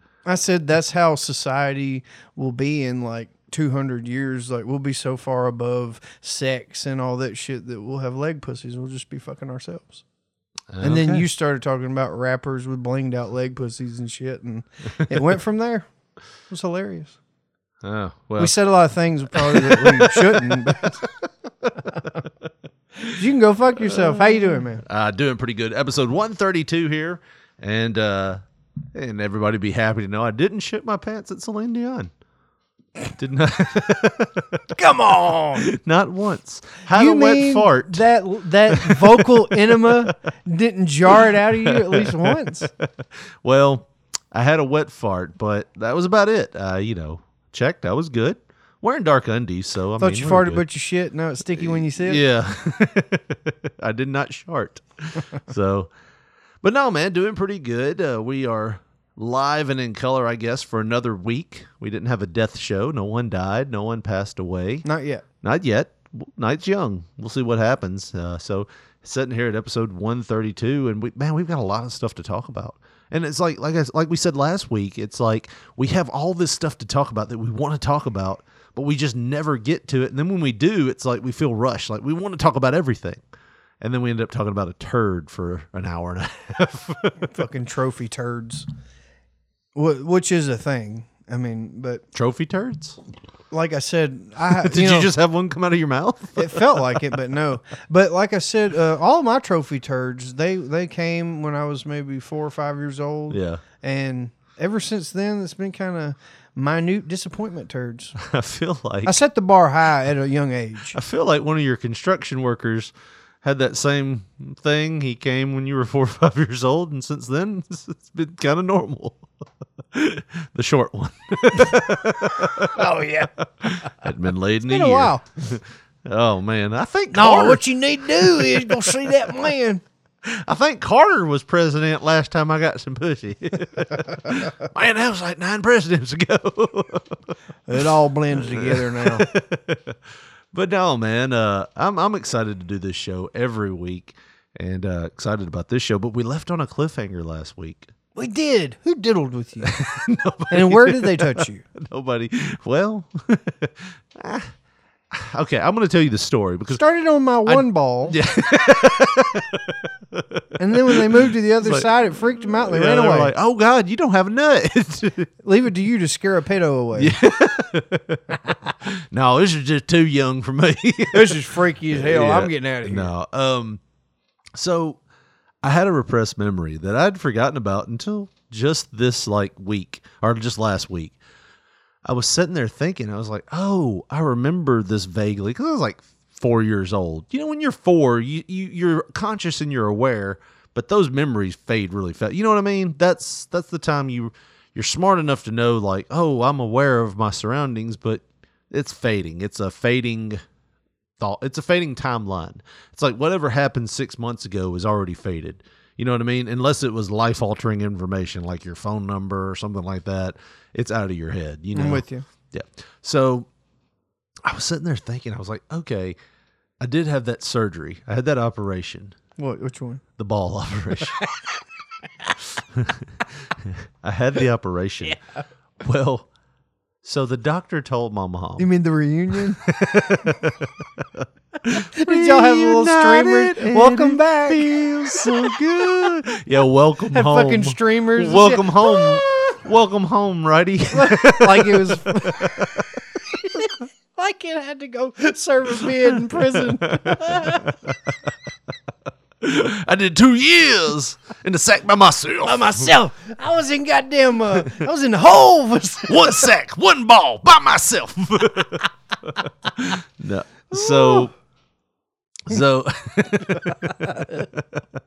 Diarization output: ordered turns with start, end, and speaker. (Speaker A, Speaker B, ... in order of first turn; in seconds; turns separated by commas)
Speaker A: 0.3-10.0, Speaker B: 10.7-11.3, Speaker A: 10.8-15.9, Speaker A: 16.5-17.2, Speaker B: 17.8-18.6, Speaker A: 18.4-21.0, Speaker B: 19.3-20.7, Speaker A: 21.9-22.2, Speaker A: 23.0-24.8, Speaker B: 23.8-28.4, Speaker B: 28.9-32.1, Speaker B: 33.2-34.6, Speaker A: 34.8-35.7, Speaker B: 35.6-38.0, Speaker A: 36.9-42.7, Speaker B: 38.7-40.1, Speaker B: 41.3-42.5, Speaker B: 43.4-50.6, Speaker A: 50.0-52.2, Speaker B: 51.5-55.9, Speaker B: 56.6-64.9, Speaker A: 64.8-65.2, Speaker B: 65.4-83.2, Speaker B: 83.8-87.3, Speaker A: 87.2-88.7, Speaker A: 89.8-92.0, Speaker B: 92.1-93.0, Speaker A: 93.5-95.1, Speaker B: 94.5-97.0, Speaker A: 96.4-108.2, Speaker B: 103.3-103.6, Speaker B: 108.2-109.2, Speaker A: 109.0-111.0, Speaker B: 110.9-112.9, Speaker B: 113.4-119.2, Speaker B: 119.9-122.9, Speaker A: 122.5-123.3, Speaker B: 123.6-129.1, Speaker A: 124.7-125.2, Speaker A: 127.1-129.8, Speaker B: 130.2-137.2, Speaker A: 137.7-139.3, Speaker B: 138.4-140.0, Speaker B: 140.5-147.9, Speaker A: 148.2-149.7, Speaker B: 149.6-154.5, Speaker A: 150.5-151.6, Speaker B: 155.1-156.8, Speaker A: 156.8-158.2, Speaker B: 157.5-165.3, Speaker A: 160.6-163.3, Speaker A: 165.4-167.2, Speaker B: 166.9-168.2, Speaker B: 168.8-173.8, Speaker A: 171.1-173.1, Speaker B: 174.6-175.0, Speaker B: 175.6-181.2, Speaker B: 182.1-200.4, Speaker B: 201.2-213.5, Speaker A: 211.7-212.2, Speaker B: 214.4-216.2, Speaker B: 216.8-219.2, Speaker A: 219.4-220.0, Speaker B: 220.2-221.2, Speaker B: 222.7-225.2, Speaker A: 225.0-225.4, Speaker B: 225.8-226.3, Speaker B: 227.0-228.7, Speaker A: 228.6-229.7, Speaker B: 229.3-242.8, Speaker A: 231.7-235.5, Speaker A: 237.1-239.6, Speaker A: 240.9-247.7, Speaker B: 246.6-248.0, Speaker B: 249.4-252.9, Speaker A: 252.4-256.5, Speaker B: 256.1-261.3, Speaker A: 260.7-261.3, Speaker B: 262.5-264.9, Speaker A: 263.7-264.4